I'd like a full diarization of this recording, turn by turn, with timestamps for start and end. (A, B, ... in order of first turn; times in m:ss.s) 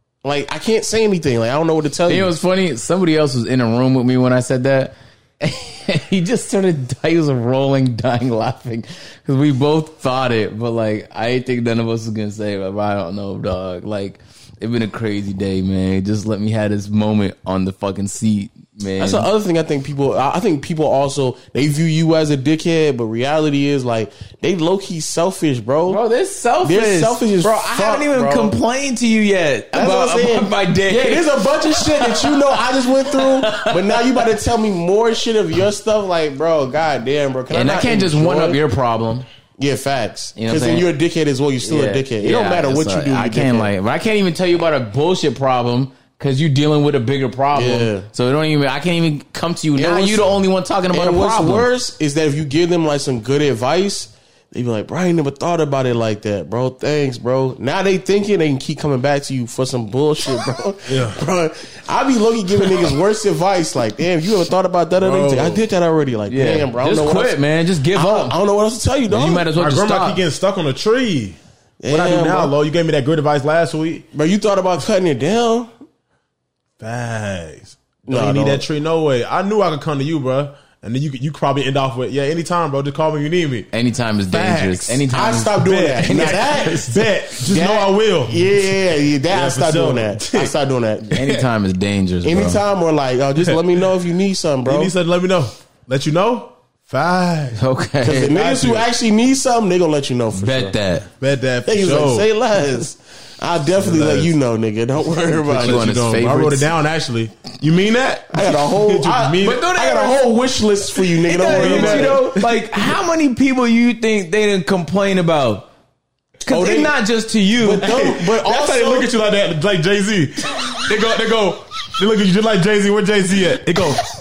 0:00.2-0:02.3 A
0:02.1-0:19.3 B
0:19.0-0:26.0 A
0:25.8-0:34.2 B
0:26.6-0:28.6 A
0:29.7-0:38.6 A
0:37.5-0:39.2 B
0:39.6-0:43.7 A
0:40.4-0:40.8 B
0:41.6-0:51.7 B
0:47.5-0:48.1 A
0:49.8-0:50.4 A
0:50.9-1:07.4 A
1:00.9-1:01.2 C
1:05.0-1:05.6 C
1:06.3-1:08.3 B
1:07.9-1:09.5 A
1:09.1-1:10.2 B
1:09.5-1:14.0 C
1:11.8-1:12.5 A
1:14.1-1:15.7 A
1:16.8-1:23.7 C
1:18.1-1:18.6 A
1:23.7-1:26.7 B
1:24.3-1:25.1 C
1:25.1-1:27.0 A
1:25.6-1:28.6 C
1:27.4-1:27.9 B
1:28.3-1:31.2 A
1:29.3-1:30.5 C
1:31.1-1:32.6 B
1:31.2-1:31.4 C
1:32.2-1:34.9 A
1:33.4-1:33.8 C
1:34.6-1:37.6 C
1:37.6-1:38.4 B
1:38.0-1:40.7 A
1:38.3-1:38.8 C
1:40.3-1:41.1 B
1:41.2-1:42.2 C
1:41.6-1:45.9 A
1:43.8-1:44.3 C
1:45.4-1:46.7 B
1:45.5-1:49.6 C
1:48.3-1:52.2 A
1:49.4-1:50.2 B
1:51.2-1:55.6 B
1:51.4-1:52.5 C
1:56.4-1:57.8 B
1:56.5-1:57.0 A
1:57.6-1:59.1 A
1:57.8-2:04.0 C